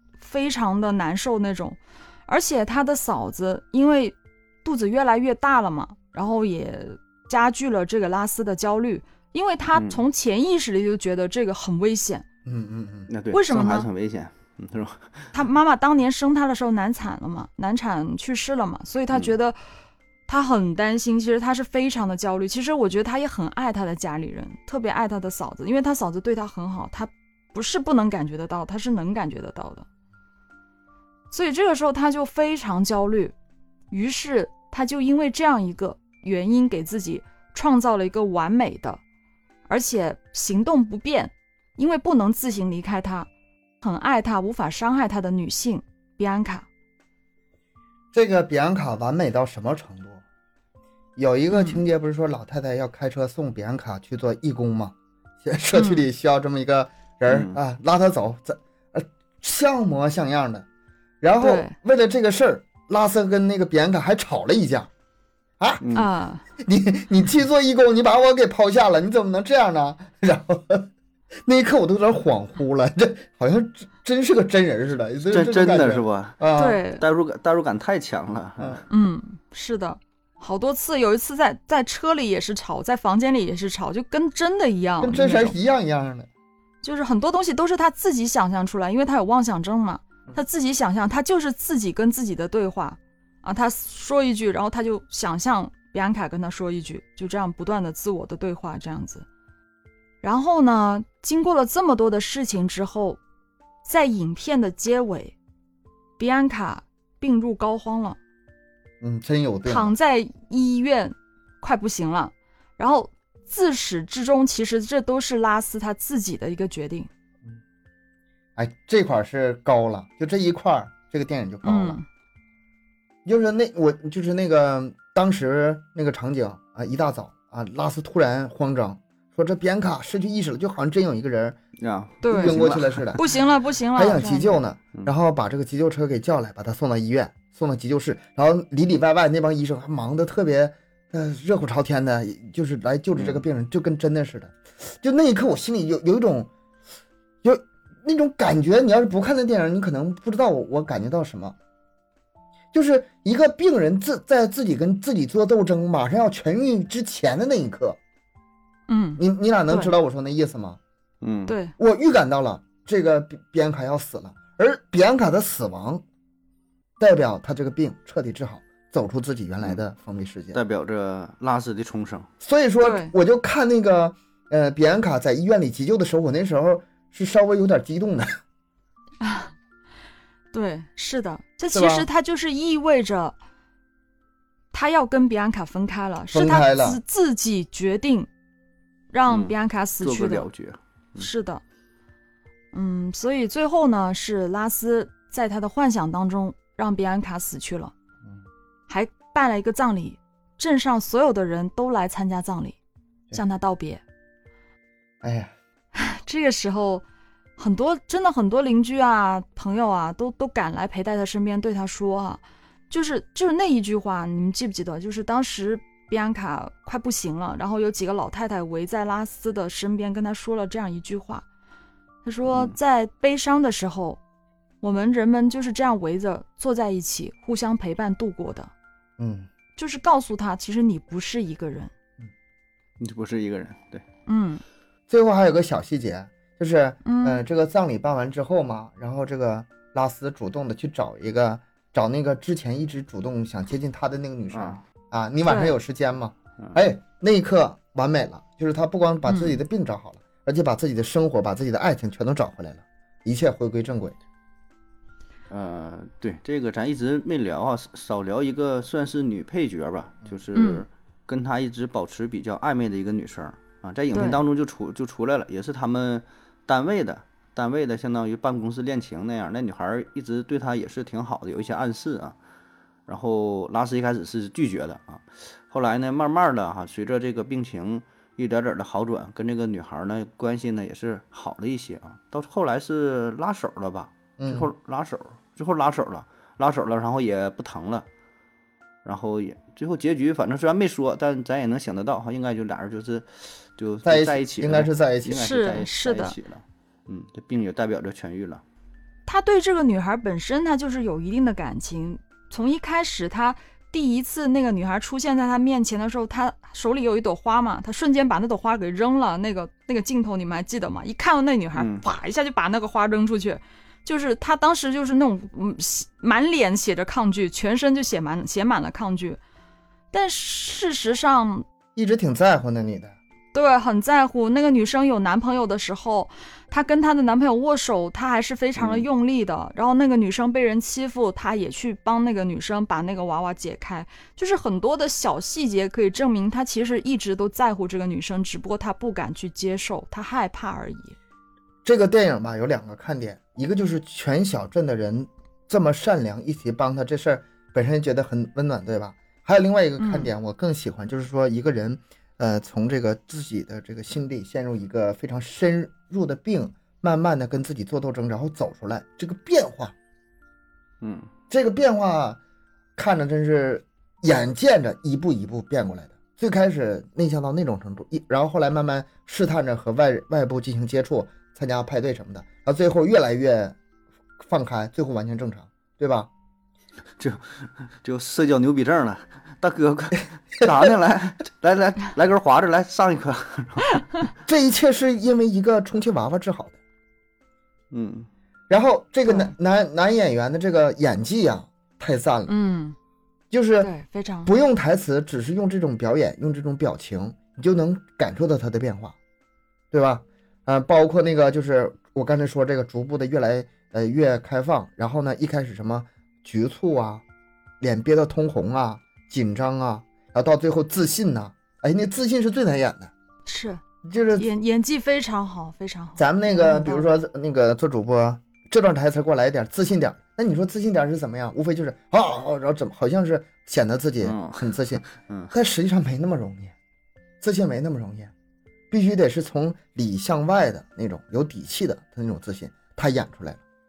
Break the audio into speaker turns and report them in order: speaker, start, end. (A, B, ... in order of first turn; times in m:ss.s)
0:00.2-0:12.2 A
0:09.7-0:10.0 B
0:12.4-0:13.1 C
0:13.1-0:15.3 B
0:13.3-0:13.9 A
0:15.3-0:19.6 A
0:20.3-0:29.8 A
0:31.3-0:33.3 A
0:33.9-0:39.0 A
0:39.7-0:43.3 A
0:43.8-0:46.7 A
0:48.1-0:50.2 C
0:51.2-1:00.6 C
0:51.5-0:51.8 A
0:55.7-0:56.0 A
0:57.3-0:57.6 B
1:01.2-1:04.9 C
1:01.4-1:01.7 A
1:05.8-1:06.1 B
1:05.9-1:06.4 A
1:06.6-1:10.9 C
1:11.4-1:16.8 C
1:15.3-1:16.4 B
1:16.6-1:17.0 A
1:17.0-1:18.8 B
1:18.9-1:25.5 A
1:25.0-1:26.3 C
1:26.8-1:39.2 A
1:40.2-1:43.2 A
1:43.8-1:45.4 A
1:46.2-1:48.2 A
1:49.0-1:49.9 C
1:49.6-1:57.1 A
1:58.6-2:02.0 C
2:01.6-2:02.0 A
2:03.2-2:11.6 C
2:11.8-2:13.2 B
2:12.2-2:12.6 A
2:12.3-2:13.2 C
2:13.1-2:14.6 A
2:13.9-2:26.5 C
2:23.2-2:23.4 B
2:27.4-2:31.5 C
2:32.7-2:38.0 C
2:38.9-2:39.9 A
2:39.2-2:40.8 C
2:41.2-2:41.6 B
2:41.5-2:41.7 A
2:41.8-2:46.0 C
2:47.0-2:50.6 C
2:50.5-2:52.3 B
2:52.4-2:58.3 C
2:52.8-2:53.1 A
2:59.2-2:59.5 A
3:00.5-3:03.3 A
3:01.7-3:02.1 C
3:04.7-3:08.3 A
3:06.3-3:07.0 C
3:09.1-3:10.5 A
3:09.3-3:11.3 B
3:11.2-3:11.6 A
3:12.7-3:17.9 A
3:18.9-3:22.8 A
3:23.3-3:24.0 A
3:25.2-3:25.5 C
3:25.9-3:27.0 A
3:27.6-3:41.4 A
3:42.2-3:44.2 A
3:42.5-3:42.7 B
3:44.8-3:48.7 A
3:49.2-3:49.5 C
3:49.8-3:51.9 A
3:53.0-3:54.0 B
3:54.3-3:54.6 A
3:55.1-4:14.2 C
3:57.0-3:57.4 A
4:04.5-4:04.8 B
4:05.4-4:05.7 A
4:09.3-4:09.6 A
4:15.5-4:32.4 B
4:20.5-4:20.8 A
4:24.1-4:24.4 A
4:33.1-4:48.0 B
4:44.4-4:44.7 C
4:49.0-4:58.6 B
4:54.0-4:55.5 C
4:55.4-4:56.4 A
4:59.2-5:19.4 A
5:11.7-5:12.0 B
5:20.1-5:21.6 A
5:22.0-5:23.1 C
5:23.5-5:41.2 A
5:28.8-5:29.0 B
5:41.8-5:59.9 C
5:50.0-5:50.3 A
6:01.0-6:01.3 B
6:01.5-6:02.4 C
6:03.0-6:13.8 C
6:14.4-6:16.3 C
6:17.2-6:24.3 B
6:24.4-6:26.8 C
6:27.9-6:28.3 B
6:28.7-6:32.5 C
6:29.2-6:29.5 A
6:32.5-6:33.0 A
6:33.5-6:33.9 C
6:33.8-6:34.5 A
6:34.4-6:39.2 C
6:39.9-6:47.2 C
6:47.8-6:53.1 C
6:53.4-6:53.8 A
6:54.0-6:54.5 C
6:54.3-6:57.1 A
6:56.2-7:06.7 C
7:04.2-7:05.5 B
7:07.4-7:08.3 C
7:08.9-7:13.6 C